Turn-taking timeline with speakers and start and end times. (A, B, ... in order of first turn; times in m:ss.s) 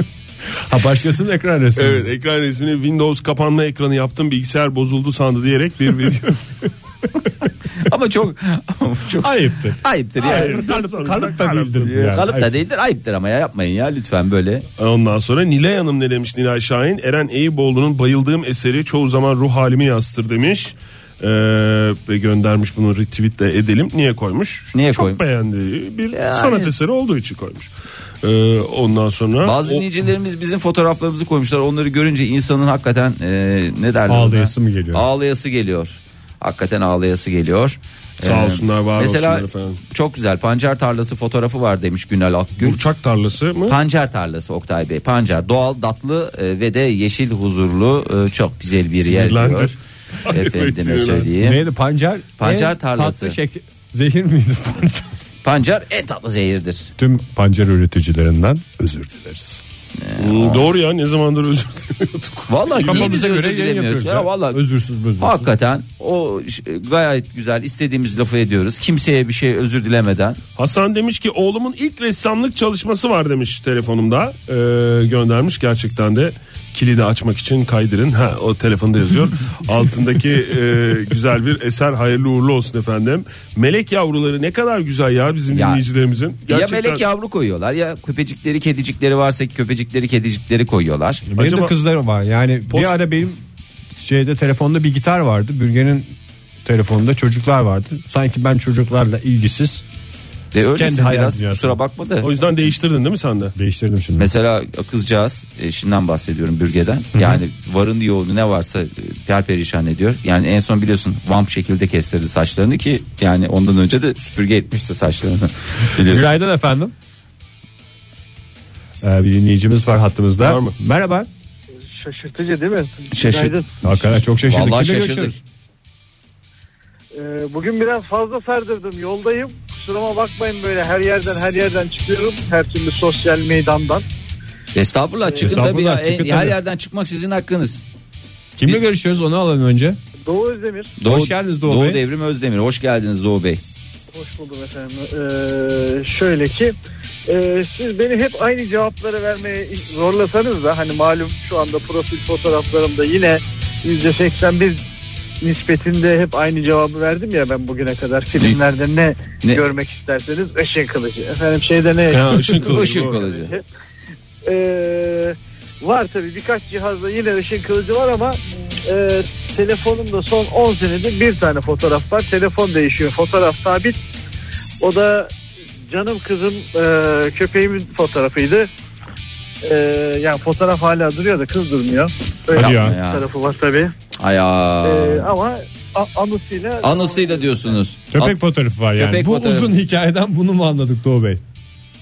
0:00.6-0:02.1 A
0:01.8-0:06.4 B
0:07.8-0:10.6 C
0:09.2-0:12.6 A
0:10.2-0:12.2 B
0:11.9-0:14.6 C
0:14.8-0:27.7 B
0:24.7-0:25.2 C
0:26.1-0:26.7 C
0:28.2-0:29.8 B
0:29.4-0:42.8 C
0:34.1-0:35.0 A
0:38.2-0:39.8 B
0:42.6-0:43.8 B
0:43.7-0:49.8 C
0:49.0-0:51.3 B
0:50.3-0:51.6 C
0:51.4-0:55.1 A
0:52.4-0:53.4 C
0:55.4-0:56.9 C
0:57.0-0:59.6 A
1:00.0-1:00.6 C
1:00.2-1:03.2 B
1:02.5-1:04.6 C
1:02.8-1:05.5 A
1:05.2-1:10.4 C
1:10.6-1:27.0 B
1:25.5-1:25.8 C
1:26.5-1:31.2 C
1:31.3-1:33.4 A
1:31.3-1:31.7 B
1:32.7-1:32.9 B
1:34.0-1:36.1 A
1:36.6-1:39.8 A
1:40.5-1:42.3 C
1:40.7-1:41.8 A
1:42.2-1:43.5 B
1:43.6-1:44.3 A
1:44.2-1:56.3 C
1:47.1-1:47.4 A
1:55.9-1:56.9 A
1:59.0-2:01.3 A
2:00.4-2:00.7 B
2:01.9-2:03.8 D
2:03.1-2:05.3 C
2:03.8-2:05.4 A
2:07.1-2:14.0 D
2:14.7-2:17.8 C
2:15.3-2:15.7 D
2:15.4-2:16.6 A
2:18.6-2:20.0 A
2:20.2-2:21.0 D
2:21.0-2:23.6 C
2:21.0-2:22.0 A
2:24.1-2:26.7 D
2:27.3-2:34.8 D
2:35.4-2:43.6 D
2:42.1-2:43.2 B
2:42.6-2:43.6 C
2:44.4-2:54.0 D
2:54.8-2:55.3 D
2:55.9-2:58.7 D
2:59.6-3:03.9 D
3:02.5-3:03.2 C
3:02.6-3:03.0 A
3:04.2-3:05.3 C
3:04.8-3:07.8 D
3:06.8-3:08.4 C
3:08.1-3:11.4 A
3:09.0-3:09.7 C